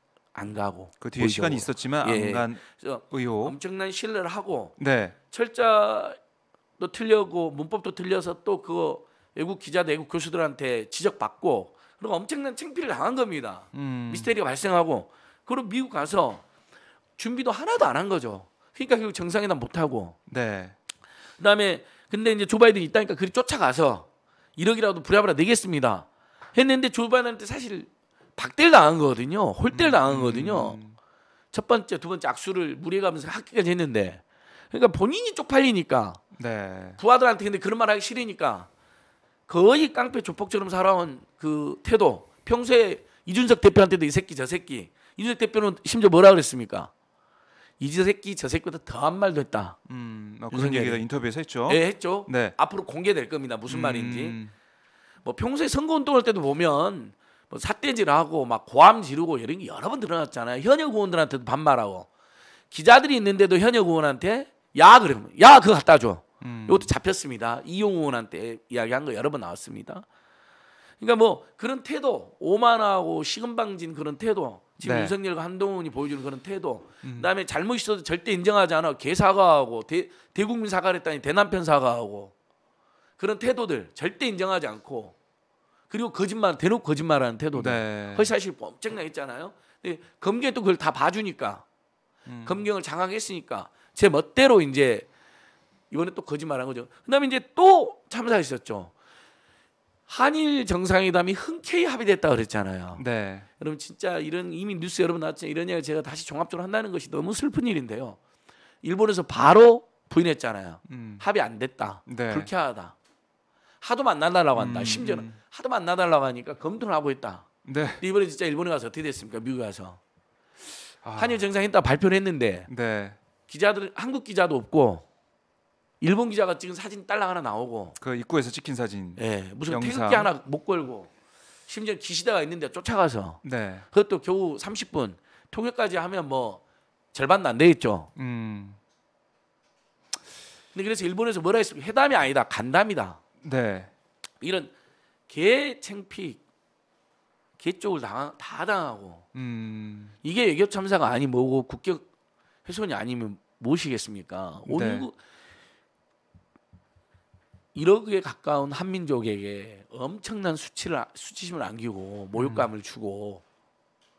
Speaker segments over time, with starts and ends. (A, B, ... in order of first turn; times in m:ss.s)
0:00.3-0:04.8 A
0:01.0-0:03.6 B
0:04.8-0:05.1 B
0:05.3-0:06.2 A
0:06.8-0:16.4 A
0:13.7-0:14.3 B
0:17.2-0:20.2 A
0:20.3-0:20.7 B
0:21.4-0:30.8 A
0:29.7-0:31.0 B
0:31.5-0:36.2 A
0:36.4-0:37.0 B
0:37.0-0:38.7 A
0:39.5-0:46.9 A
0:47.8-0:49.8 A
0:49.9-0:52.5 B
0:50.5-0:51.0 A
0:51.7-0:54.4 A
0:53.7-0:54.5 B
0:55.2-1:02.1 A
1:02.7-1:10.0 A
1:06.4-1:06.9 B
1:11.0-1:22.3 A
1:14.8-1:15.1 B
1:17.0-1:17.3 B
1:23.2-1:25.2 A
1:25.9-1:31.6 A
1:27.5-1:28.3 B
1:32.2-1:32.6 B
1:32.4-1:35.1 A
1:35.9-1:38.9 A
1:40.1-1:43.0 A
1:43.0-1:43.5 B
1:43.6-1:48.2 A
1:48.8-1:53.0 A
1:50.9-1:51.2 B
1:52.1-1:52.5 B
1:53.8-1:57.5 A
1:54.6-1:55.4 B
1:57.6-1:58.0 B
1:58.0-2:00.0 A
2:01.0-2:01.4 B
2:01.2-2:02.7 A
2:02.7-2:03.2 B
2:03.4-2:05.0 A
2:06.0-2:08.0 A
2:08.0-2:10.3 B
2:09.2-2:11.1 A
2:11.7-2:16.6 A
2:13.4-2:13.8 B
2:17.1-2:18.1 A
2:18.2-2:18.8 B
2:20.7-2:23.2 A
2:23.4-2:23.9 B
2:24.4-2:24.7 A
2:25.3-2:26.4 A
2:27.6-2:29.2 A
2:29.3-2:30.1 B
2:30.2-2:32.0 A
2:32.6-2:35.2 A
2:34.7-2:35.1 B
2:37.7-2:43.4 A
2:42.3-2:42.7 B